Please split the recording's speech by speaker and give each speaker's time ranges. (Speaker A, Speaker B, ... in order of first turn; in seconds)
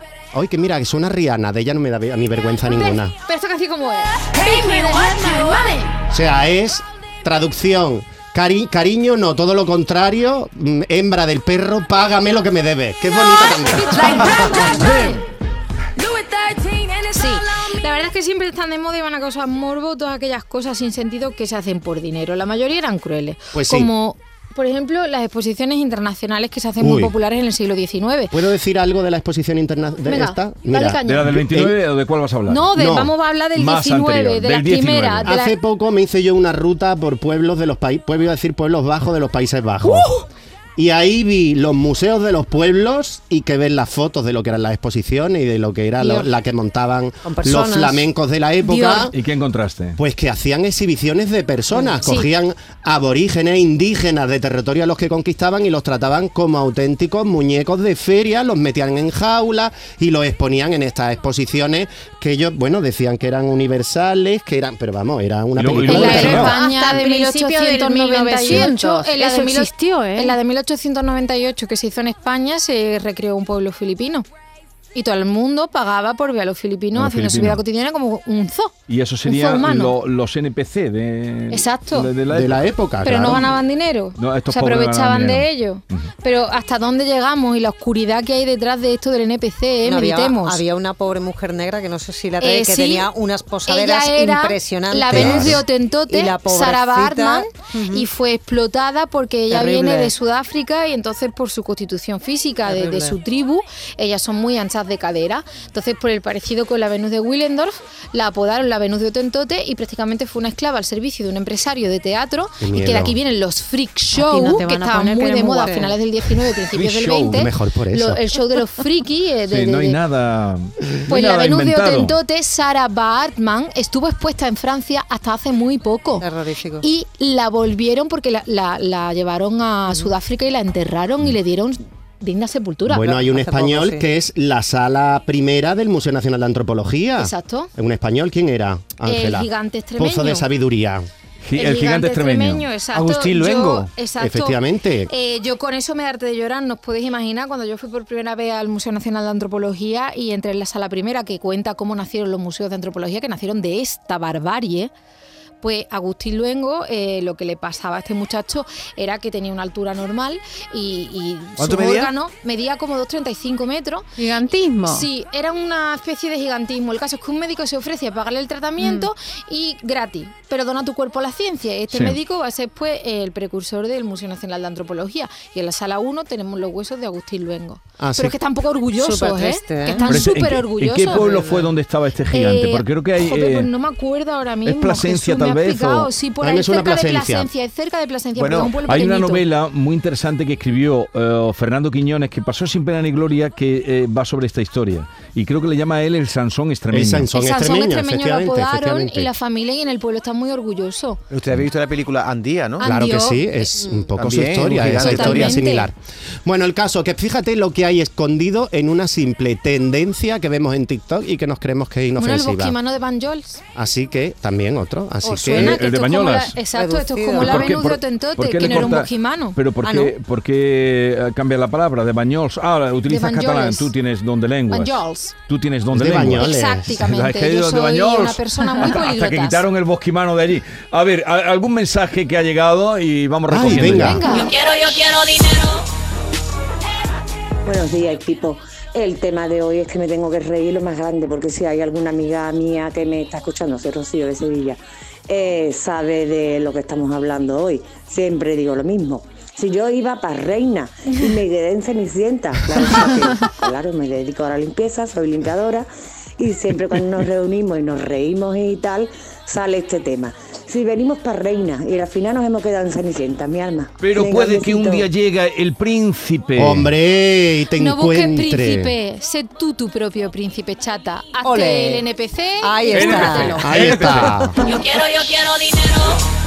Speaker A: 0.3-3.1, 6.1-14.7, 23.5-23.9, 26.8-27.1, 28.3-31.8, 32.7-33.1, 35.2-40.1, 40.8-49.1, 50.0-66.5, 82.3-83.5, 112.6-113.1, 117.3-118.2, 132.8-141.1, 144.2-145.1, 178.0-178.3, 186.4-187.5, 196.9-199.3, 202.8-212.7, 213.7-215.8, 225.9-227.0, 233.5-234.2, 266.6-268.9, 273.6-274.5
Speaker B: 2.6-5.9, 13.1-15.2, 17.0-28.3, 30.1-31.3, 32.5-35.5, 52.0-52.3, 65.8-74.2, 74.9-78.7, 79.2-79.9, 81.5-82.1, 83.0-90.6, 92.4-93.1, 93.7-120.0, 121.1-126.2, 126.8-133.2, 137.2-137.7, 139.1-140.5, 141.5-154.9, 155.6-164.1, 164.8-181.5, 182.3-189.4, 197.3-201.2, 202.8-203.8, 205.0-205.9, 212.2-213.6, 215.2-219.6, 223.1-223.9, 224.7-225.3, 226.3-229.6, 233.8-234.5, 267.8-273.7
Speaker C: 4.3-5.8, 16.2-16.9, 39.8-40.2, 48.6-49.1, 66.1-70.4, 114.1-116.0, 164.2-165.1, 168.8-169.1
Speaker D: 31.1-32.7, 33.5-35.3, 49.1-50.0, 65.5-66.5, 76.9-77.6, 78.9-82.7, 84.2-86.1, 95.1-95.4, 116.7-117.5, 119.5-122.1, 141.4-142.7, 171.9-172.2, 180.1-183.7, 184.7-186.1, 188.9-197.3, 215.5-216.6, 217.4-225.0, 225.5-234.2, 264.0-266.9, 272.9-274.5
Speaker E: 47.2-48.0, 89.8-98.0, 99.5-100.1, 102.7-103.2, 126.2-126.8, 133.0-134.0, 178.9-180.1, 216.7-217.7, 219.8-220.1, 271.4-272.0, 272.6-274.2
Speaker F: 142.9-143.9, 161.6-162.1, 188.3-188.8, 201.3-202.8, 204.2-205.6
Speaker G: 234.3-235.8, 274.6-276.2
Speaker H: 237.6-265.1